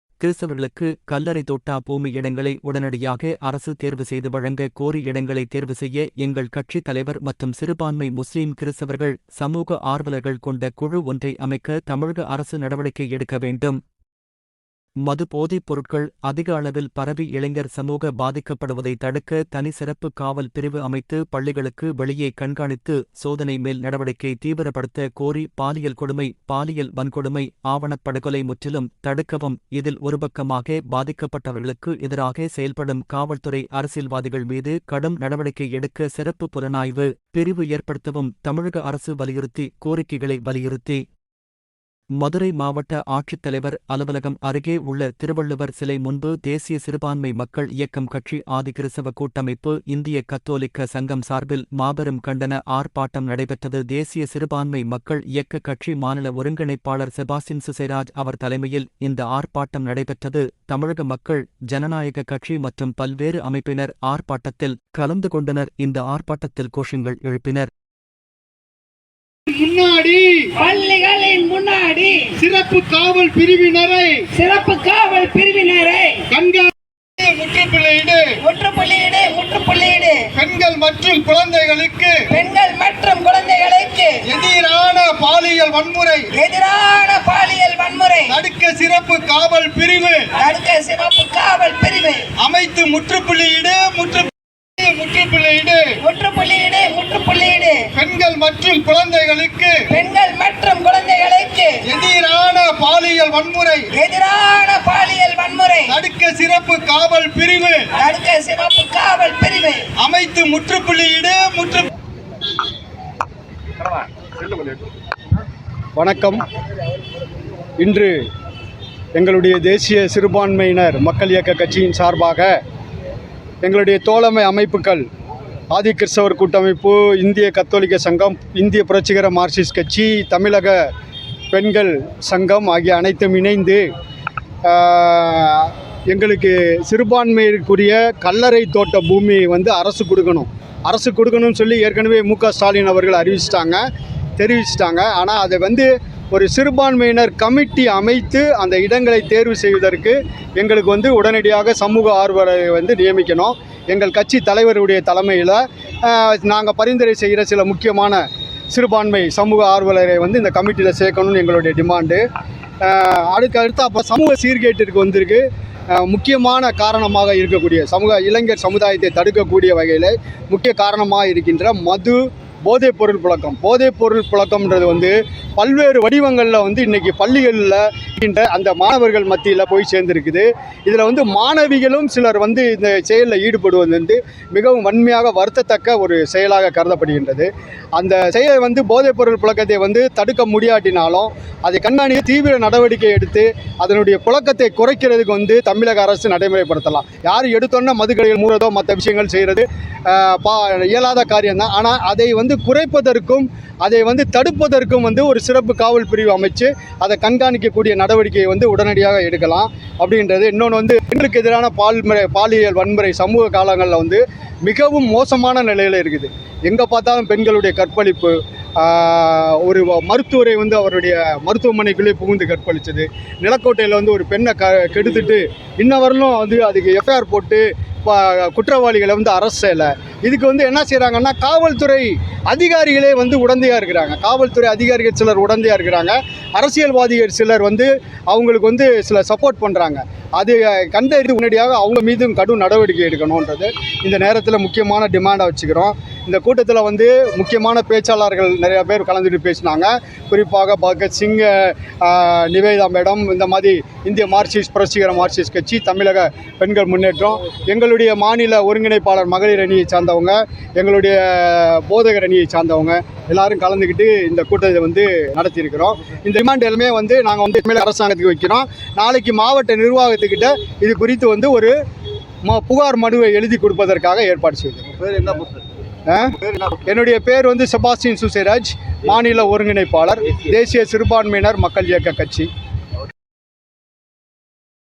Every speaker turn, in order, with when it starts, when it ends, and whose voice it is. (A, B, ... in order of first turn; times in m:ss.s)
0:00.2-0:13.8 A
0:15.0-0:41.0 A
0:42.2-1:07.7 A
1:09.5-1:10.5 B
1:10.6-1:12.3 C
1:12.4-1:14.3 B
1:14.3-1:16.2 C
1:16.3-1:18.4 B
1:18.4-1:20.3 C
1:20.3-1:22.2 B
1:22.3-1:24.2 C
1:24.2-1:26.3 B
1:26.3-1:28.4 C
1:28.3-1:30.3 B
1:30.3-1:32.3 C
1:32.4-1:36.0 B
1:36.0-1:37.8 C
1:37.9-1:39.8 B
1:39.9-1:41.8 C
1:41.8-1:43.9 B
1:43.9-1:46.0 C
1:45.9-1:47.9 B
1:47.9-1:49.9 C
1:50.0-1:51.9 B
1:56.0-1:56.4 B
1:57.8-1:58.1 B
1:59.1-2:02.5 B
2:03.6-2:05.0 B
2:05.7-2:10.8 B
2:11.5-2:13.8 B
2:14.6-2:23.8 B
2:24.4-2:42.2 B
2:42.8-4:31.7 B
4:32.4-4:35.4 B
4:36.1-4:42.5 B